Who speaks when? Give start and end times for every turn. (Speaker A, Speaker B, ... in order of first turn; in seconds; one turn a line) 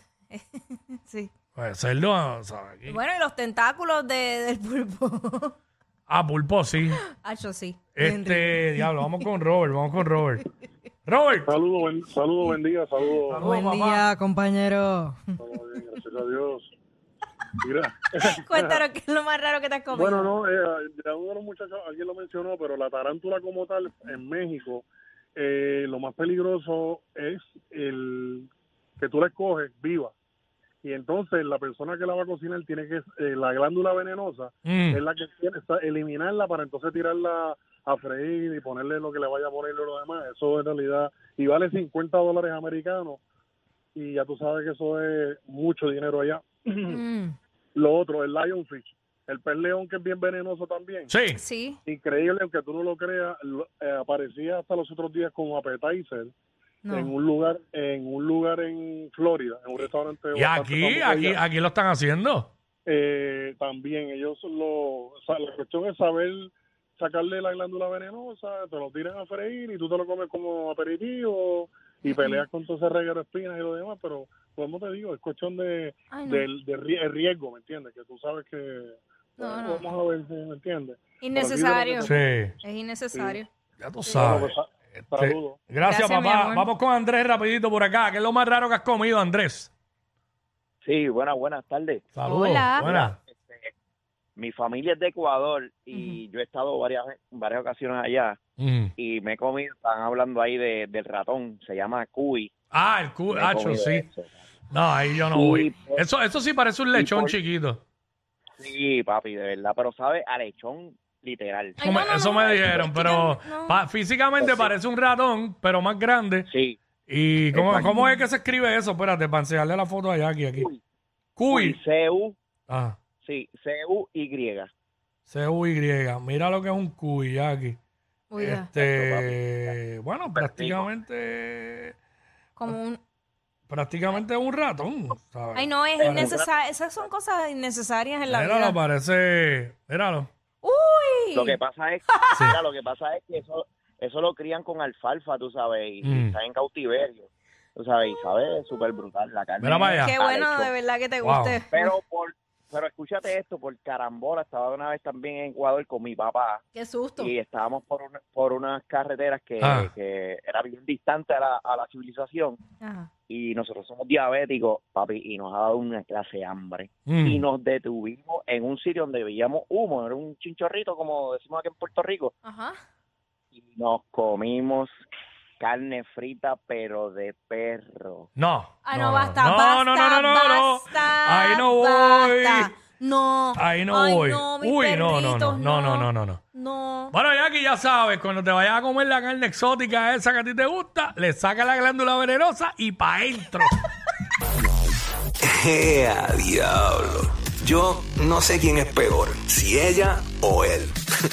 Speaker A: 0.3-1.3
Speaker B: 1.6-3.0
Speaker A: 2.9-5.5
Speaker B: 6.1-7.0
Speaker A: 6.9-9.2
Speaker B: 8.0-10.4
Speaker B: 11.1-11.5
Speaker C: 11.5-13.5
Speaker B: 13.3-14.1
Speaker A: 13.4-15.3
Speaker C: 15.4-16.7
Speaker C: 17.6-18.8
Speaker A: 18.2-20.3
Speaker C: 19.9-28.5
Speaker C: 29.0-30.1
Speaker C: 30.8-43.2
Speaker B: 34.6-35.0
Speaker C: 44.0-47.0
Speaker A: 46.9-47.4
Speaker C: 47.8-51.1
Speaker B: 51.1-51.4
Speaker A: 51.3-51.8
Speaker C: 51.9-56.3
Speaker A: 56.9-57.1
Speaker C: 56.9-61.4
Speaker B: 60.4-62.5
Speaker C: 62.9-82.2
Speaker A: 72.1-72.4
Speaker A: 76.1-76.5
Speaker A: 79.4-79.9
Speaker A: 81.2-83.5
Speaker B: 82.0-82.5
Speaker C: 83.1-83.4
Speaker B: 83.8-89.7
Speaker C: 84.1-85.6
Speaker A: 85.8-86.7
Speaker D: 90.8-92.1
Speaker B: 92.1-93.2
Speaker A: 92.2-92.9
Speaker D: 92.8-93.7
Speaker D: 94.4-98.4
Speaker A: 95.9-96.2
Speaker B: 98.6-98.9
Speaker D: 99.0-102.5
Speaker B: 102.7-104.1
Speaker D: 103.3-104.3
Speaker B: 104.7-107.8
Speaker D: 105.3-106.0
Speaker D: 106.9-107.3
Speaker D: 108.6-111.8
Speaker B: 111.8-116.5
Speaker A: 111.8-113.8
Speaker D: 112.3-113.2
Speaker D: 114.4-114.7
Speaker D: 116.5-116.8
Speaker B: 117.1-120.7
Speaker D: 117.5-118.1
Speaker B: 121.4-121.8
Speaker D: 121.5-122.4
Speaker B: 122.7-123.0
Speaker D: 123.2-124.7
Speaker B: 125.3-127.8
Speaker A: 128.3-128.7
Speaker B: 128.4-132.0
Speaker D: 128.8-130.9
Speaker A: 132.6-133.0
Speaker B: 133.7-136.3
Speaker A: 135.6-138.8
Speaker D: 136.0-136.5
Speaker B: 138.3-140.3
Speaker A: 140.6-142.4
Speaker D: 141.3-150.7
Speaker B: 146.0-146.4
Speaker B: 149.6-150.1
Speaker A: 149.7-151.9
Speaker B: 151.2-151.6
Speaker D: 151.7-156.6
Speaker A: 156.8-157.3
Speaker D: 157.2-162.6
Speaker B: 159.6-159.9
Speaker A: 162.8-163.1
Speaker D: 163.3-172.3
Speaker B: 167.1-167.4
Speaker A: 172.4-172.8
Speaker D: 173.5-174.9
Speaker D: 175.6-178.3
Speaker B: 178.4-182.7
Speaker A: 178.8-187.1
Speaker B: 183.6-186.4
Speaker B: 187.1-193.7
Speaker E: 195.4-201.1